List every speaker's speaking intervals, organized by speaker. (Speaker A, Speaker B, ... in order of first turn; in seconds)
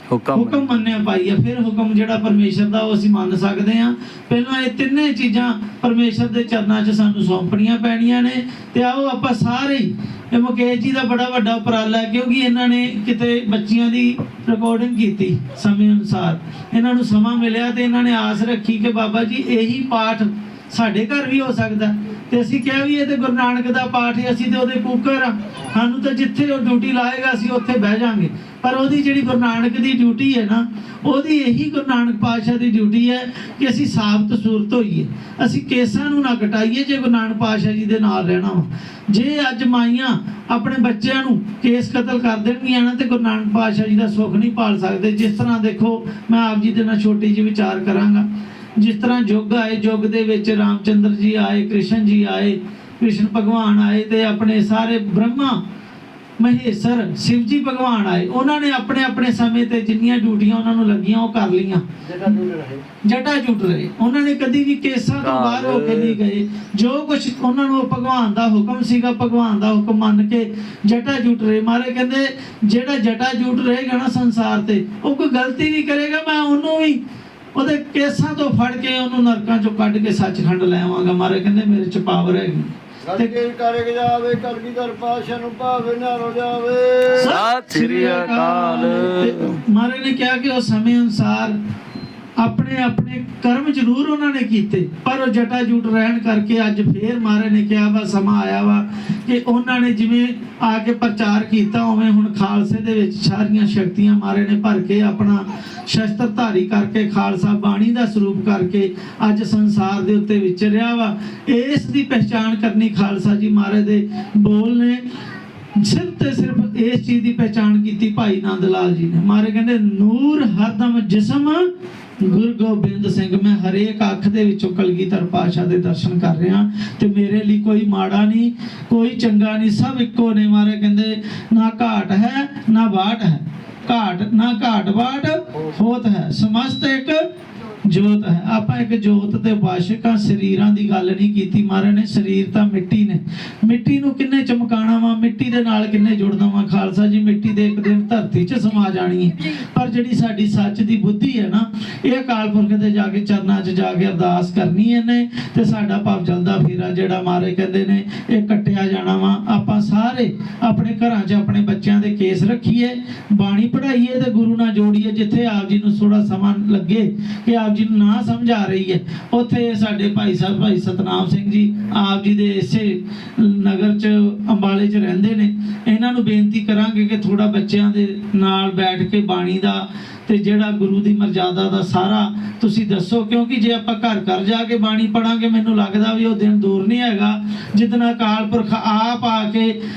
Speaker A: 0.1-0.7, 65.2-66.2, 87.2-89.5
Speaker B: 0.3-55.6, 56.4-62.4, 63.0-77.0, 77.5-83.4, 87.1-91.5, 92.4-115.0, 115.8-121.7, 122.2-137.2, 137.8-189.8
Speaker C: 62.1-62.8, 83.1-87.2